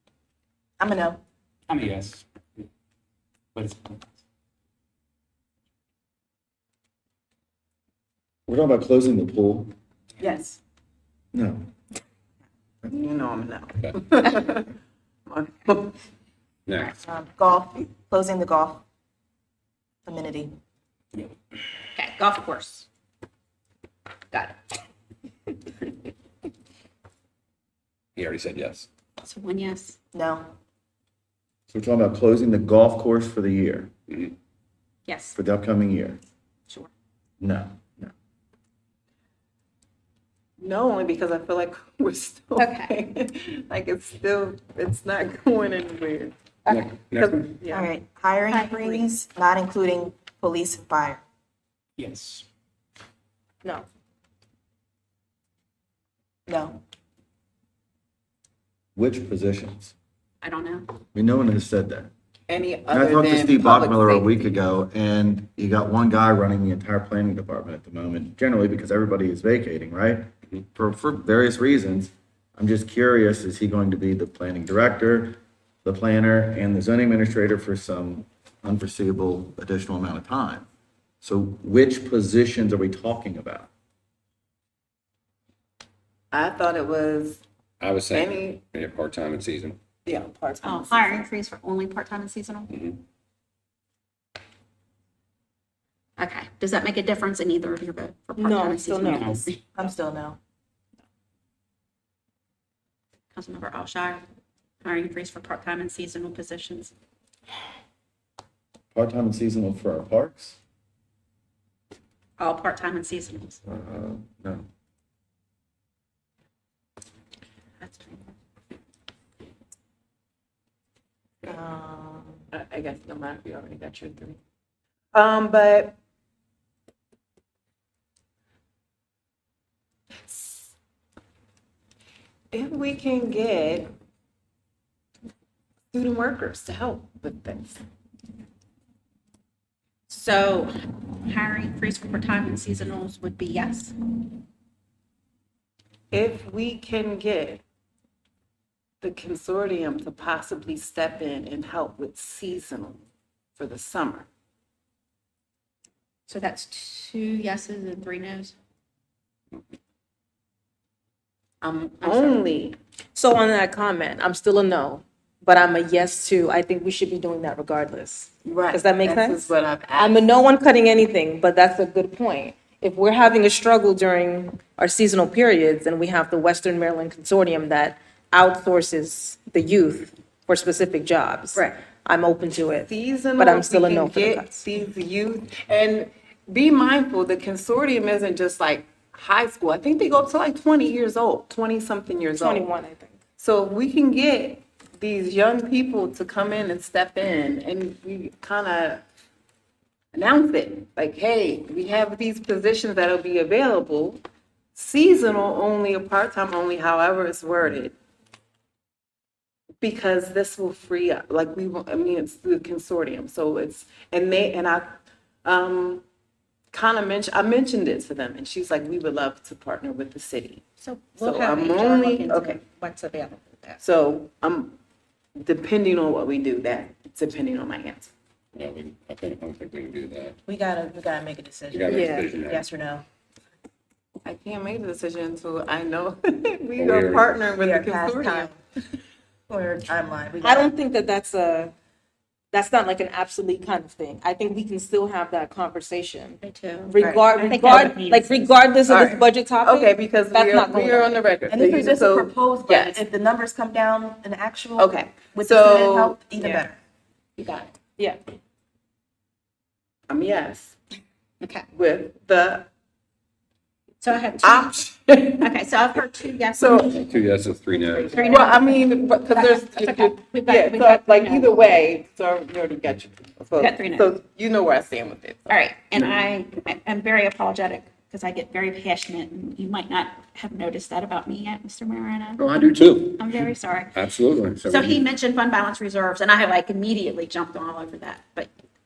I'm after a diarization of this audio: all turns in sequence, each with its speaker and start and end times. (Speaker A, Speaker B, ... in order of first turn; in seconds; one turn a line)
Speaker A: 0.8-1.2
Speaker B: 1.7-2.2
Speaker B: 3.5-4.0
Speaker C: 8.5-9.7
Speaker A: 10.2-10.6
Speaker C: 11.3-11.7
Speaker D: 12.9-14.7
Speaker D: 15.3-16.0
Speaker A: 17.0-18.8
Speaker A: 20.1-20.5
Speaker E: 21.9-22.9
Speaker E: 24.3-24.6
Speaker F: 28.2-28.9
Speaker E: 29.2-30.0
Speaker A: 30.1-30.5
Speaker C: 31.7-33.9
Speaker E: 35.0-35.3
Speaker C: 35.3-36.2
Speaker C: 37.4-38.1
Speaker D: 40.6-46.4
Speaker E: 42.5-43.0
Speaker F: 46.7-47.4
Speaker D: 47.1-47.9
Speaker A: 47.7-51.2
Speaker E: 48.5-49.0
Speaker B: 52.0-52.5
Speaker A: 56.5-56.8
Speaker C: 58.9-59.9
Speaker E: 60.4-60.9
Speaker C: 61.1-62.1
Speaker D: 62.5-64.6
Speaker C: 62.9-80.7
Speaker C: 81.2-83.7
Speaker D: 86.3-87.4
Speaker F: 87.8-89.8
Speaker D: 88.1-88.6
Speaker D: 90.0-91.3
Speaker E: 90.6-92.8
Speaker F: 92.7-93.0
Speaker E: 96.2-99.6
Speaker G: 98.4-99.3
Speaker B: 99.0-99.5
Speaker A: 99.8-100.4
Speaker E: 103.3-104.2
Speaker E: 104.8-106.9
Speaker C: 108.9-110.6
Speaker E: 112.4-113.6
Speaker C: 113.7-114.7
Speaker E: 117.8-118.3
Speaker A: 121.5-122.4
Speaker D: 122.5-124.4
Speaker D: 125.1-126.0
Speaker D: 130.3-130.7
Speaker D: 132.5-133.9
Speaker D: 135.9-137.8
Speaker E: 140.1-140.7
Speaker E: 141.2-144.0
Speaker D: 146.1-147.6
Speaker D: 149.0-153.0
Speaker D: 153.6-154.3
Speaker E: 156.3-158.5
Speaker E: 161.6-162.4
Speaker D: 161.8-162.8
Speaker G: 163.1-184.7
Speaker D: 168.5-170.2
Speaker D: 182.8-192.7
Speaker G: 192.4-193.2
Speaker D: 193.4-199.0
Speaker D: 200.1-204.2
Speaker D: 204.8-207.9
Speaker D: 209.8-216.0
Speaker D: 216.7-220.6
Speaker E: 220.8-223.8
Speaker D: 221.2-222.6
Speaker D: 223.8-224.8
Speaker D: 225.4-228.1
Speaker F: 228.6-230.4
Speaker A: 230.5-233.1
Speaker F: 231.7-232.6
Speaker G: 231.9-232.3
Speaker D: 234.2-238.5
Speaker F: 236.8-237.4
Speaker A: 237.6-238.6
Speaker A: 239.5-240.7
Speaker G: 240.4-241.7
Speaker G: 242.5-251.2
Speaker E: 246.4-248.5
Speaker D: 247.6-247.9
Speaker D: 248.9-253.0
Speaker A: 251.5-256.8
Speaker D: 254.8-256.2
Speaker G: 256.4-256.6
Speaker E: 257.4-257.7
Speaker D: 260.1-260.8
Speaker D: 261.7-262.7
Speaker E: 264.0-264.8
Speaker D: 264.4-265.5
Speaker E: 265.4-267.0
Speaker D: 266.6-266.9
Speaker F: 266.9-268.2
Speaker E: 267.8-271.7
Speaker D: 268.2-276.0
Speaker E: 273.6-274.1
Speaker E: 275.5-282.5
Speaker F: 282.4-285.0
Speaker E: 283.2-283.9
Speaker E: 284.6-288.5